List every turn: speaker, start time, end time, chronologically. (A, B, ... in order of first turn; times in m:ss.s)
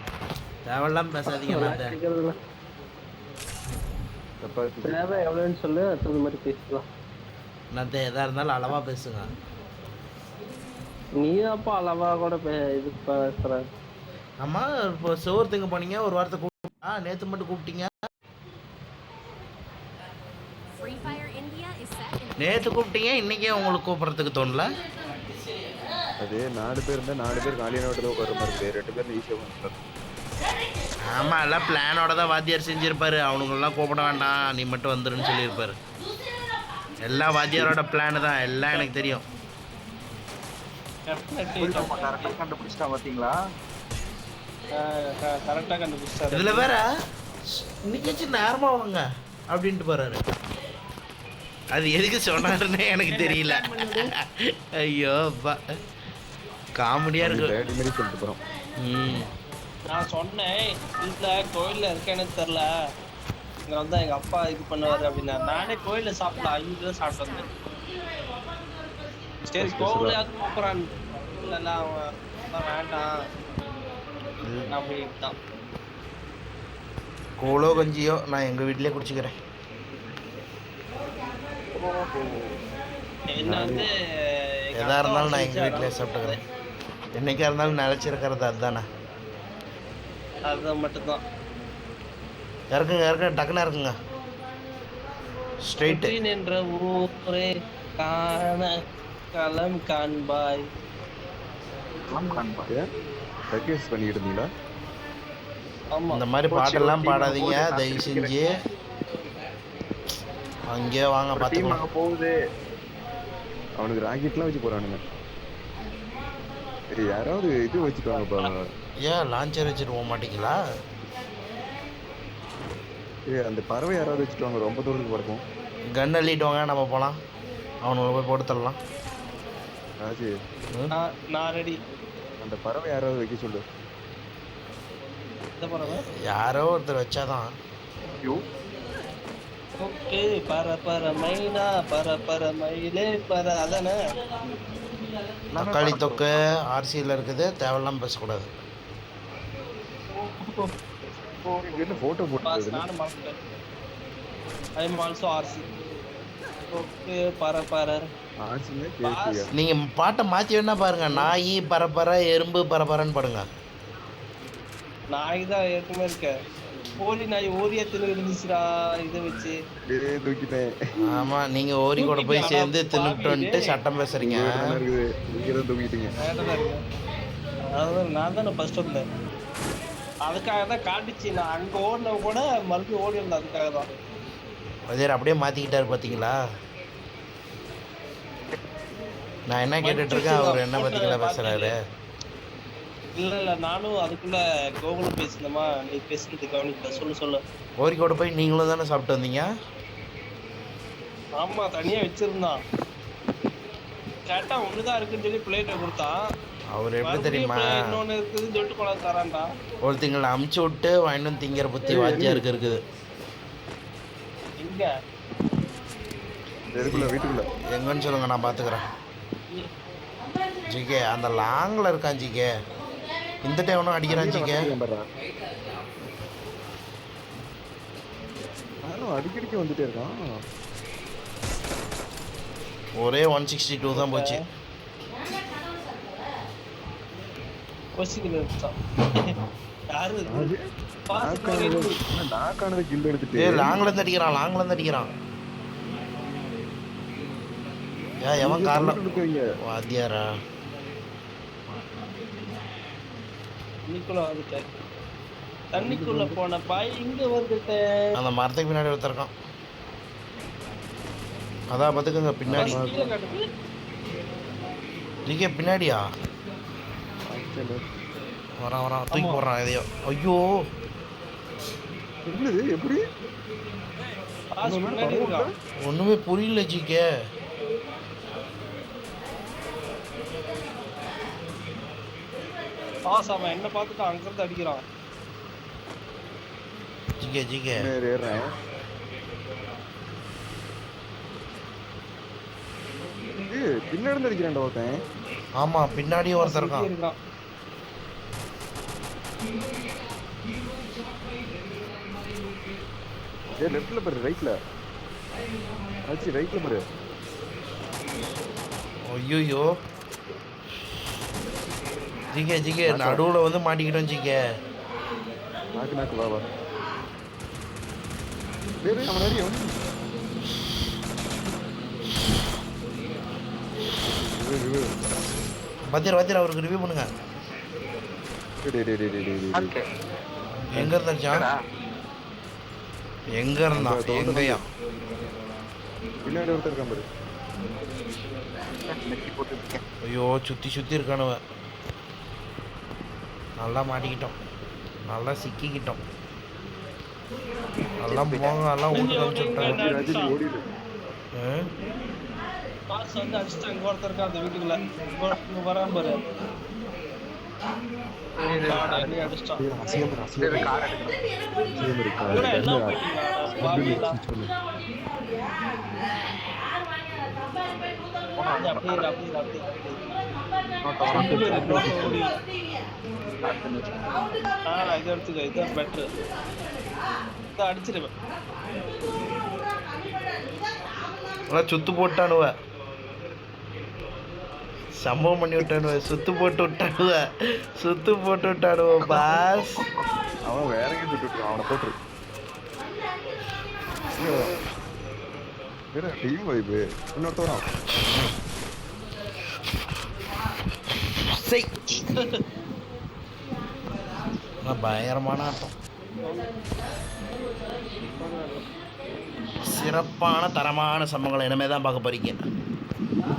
0:00.6-0:01.9 A
0:01.4-0:02.3 B
0:04.4-0:05.0 C
0:04.8-0:06.8 B
0:07.7-0:09.2 A
0:11.2-0:13.6 B
0:14.4-0:17.9 A
0:20.8-0:22.8 D
0:22.4-0:24.7 A
0:26.2-0:29.8 C
0:31.1-0:35.8 A
0:37.0-0:39.2 A
0:41.1-0:42.4 B
0:41.6-0:43.4 E
0:44.7-0:46.7 B
0:46.3-0:46.8 A
0:47.6-0:50.2 A
0:51.7-0:54.1 A
0:53.1-0:54.1 B
0:54.8-0:55.6 A
0:56.8-0:57.5 A
0:57.2-0:58.4 C
0:58.8-0:59.3 A
0:59.9-1:02.7 B
1:03.7-1:07.5 B
1:07.1-1:07.5 D
1:09.4-1:12.0 B
1:09.6-1:10.2 C
1:12.5-1:13.1 B
1:14.4-1:14.7 A
1:14.7-1:15.3 B
1:17.4-1:19.3 A
1:21.8-1:22.4 E
1:23.3-1:23.9 B
1:23.4-1:23.9 C
1:24.7-1:26.4 B
1:24.8-1:26.4 A
1:27.2-1:28.8 A
1:30.5-1:31.2 B
1:32.7-1:33.9 A
1:35.7-1:36.1 A
1:35.8-1:37.5 B
1:38.0-1:38.7 B
1:39.3-1:40.6 B
1:42.1-1:42.7 E
1:43.5-1:44.4 C
1:45.9-1:47.6 B
1:46.1-1:48.5 A
1:50.7-1:51.8 A
1:51.4-1:52.3 E
1:53.8-1:55.0 C
1:56.9-1:58.6 C
1:58.1-1:58.5 B
1:59.0-2:00.5 A
2:03.3-2:05.4 C
2:05.9-2:07.2 A
2:07.8-2:08.8 A
2:10.0-2:10.3 C
2:10.9-2:11.8 B
2:12.4-2:13.6 C
2:15.6-2:16.0 B
2:16.2-2:17.5 A
2:19.8-2:23.9 B
2:25.5-2:28.5 A
2:25.6-2:26.2 C
2:30.2-2:30.7 B
2:31.5-2:32.0 E
2:31.6-2:32.8 C
2:32.4-2:33.3 B
2:34.8-2:35.6 B
2:36.7-2:38.0 B
2:38.4-2:39.5 C
2:39.0-2:39.4 B
2:39.6-2:43.4 A
2:45.1-2:46.3 B
2:47.0-2:49.5 B
2:49.9-2:50.7 C
2:51.0-2:54.7 A
2:52.0-2:53.7 B
2:54.2-2:56.1 C
2:56.2-2:56.8 B
2:57.7-2:59.0 B
3:00.2-3:03.8 B
3:04.9-3:06.4 A
3:09.5-3:11.7 A
3:09.8-3:11.7 B
3:13.2-3:17.4 B
3:17.8-3:19.5 A
3:21.4-3:22.6 B
3:24.3-3:26.2 B
3:26.7-3:27.7 A
3:27.0-3:29.4 B
3:29.8-3:32.8 A
3:31.9-3:32.4 C
3:34.6-3:34.9 B
3:36.7-3:37.5 C
3:36.8-3:37.1 A
3:37.7-3:38.8 A
3:40.7-3:42.5 A
3:43.4-3:44.6 A
3:44.1-3:45.0 C
3:48.8-3:50.2 C
3:53.0-3:54.4 A
3:53.9-3:54.3 B
3:58.0-3:58.7 B
3:59.9-4:00.5 B
4:00.3-4:00.6 C
4:01.1-4:01.9 B
4:01.2-4:03.8 C
4:03.4-4:05.1 A
4:08.2-4:09.0 A
4:08.4-4:09.4 C
4:09.6-4:10.3 A
4:13.9-4:14.7 B
4:15.7-4:17.8 B
4:15.8-4:16.4 C
4:18.2-4:19.3 A
4:21.7-4:22.8 A
4:22.5-4:23.0 C
4:22.5-4:23.4 B
4:25.2-4:26.0 A
4:27.3-4:27.8 C
4:28.6-4:30.4 A
4:29.1-4:29.4 B
4:32.3-4:33.0 C
4:34.5-4:35.5 B
4:34.6-4:35.5 C
4:35.8-4:37.1 A
4:43.1-4:44.8 B
4:47.2-4:47.8 A
4:47.8-4:48.5 C
4:53.5-4:55.0 C
4:55.6-4:56.9 A
4:56.4-4:57.1 B
5:03.6-5:04.5 C
5:06.1-5:06.8 C
5:09.1-5:09.7 A
5:12.3-5:14.4 A
5:12.9-5:13.2 C
5:15.8-5:16.4 C
5:18.8-5:19.7 C
5:24.1-5:24.9 C
5:25.9-5:27.1 A
5:28.6-5:29.7 C
5:29.5-5:29.8 E
5:30.7-5:31.5 A
5:33.4-5:34.6 A
5:33.7-5:34.6 C
5:36.2-5:37.0 C
5:38.9-5:39.8 E
5:40.0-5:41.4 A
5:43.6-5:44.4 A
5:45.1-5:46.0 A
5:48.0-5:49.8 A
5:48.1-5:48.5 C
5:48.9-5:50.3 B
5:49.6-5:50.6 C
5:51.4-5:51.7 A
5:52.9-5:56.2 B
5:58.4-5:59.1 E
5:58.6-5:59.6 B
5:59.6-6:00.7 C
6:00.4-6:01.2 E
6:01.8-6:03.0 C
6:02.3-6:04.2 B
6:03.7-6:04.5 C
6:08.4-6:09.0 E
6:08.5-6:10.0 B
6:10.8-6:12.0 E
6:11.1-6:12.3 B
6:11.2-6:12.1 C
6:13.4-6:14.1 E
6:14.7-6:16.0 B
6:17.5-6:18.1 B
6:21.5-6:22.5 A
6:25.0-6:27.2 A
6:27.8-6:29.8 A
6:30.4-6:31.9 C
6:34.2-6:34.5 C
6:35.9-6:37.6 C
6:41.3-6:42.0 A
6:44.6-6:45.7 A
6:46.2-6:46.5 B
6:48.0-6:48.7 B
6:49.7-6:52.4 A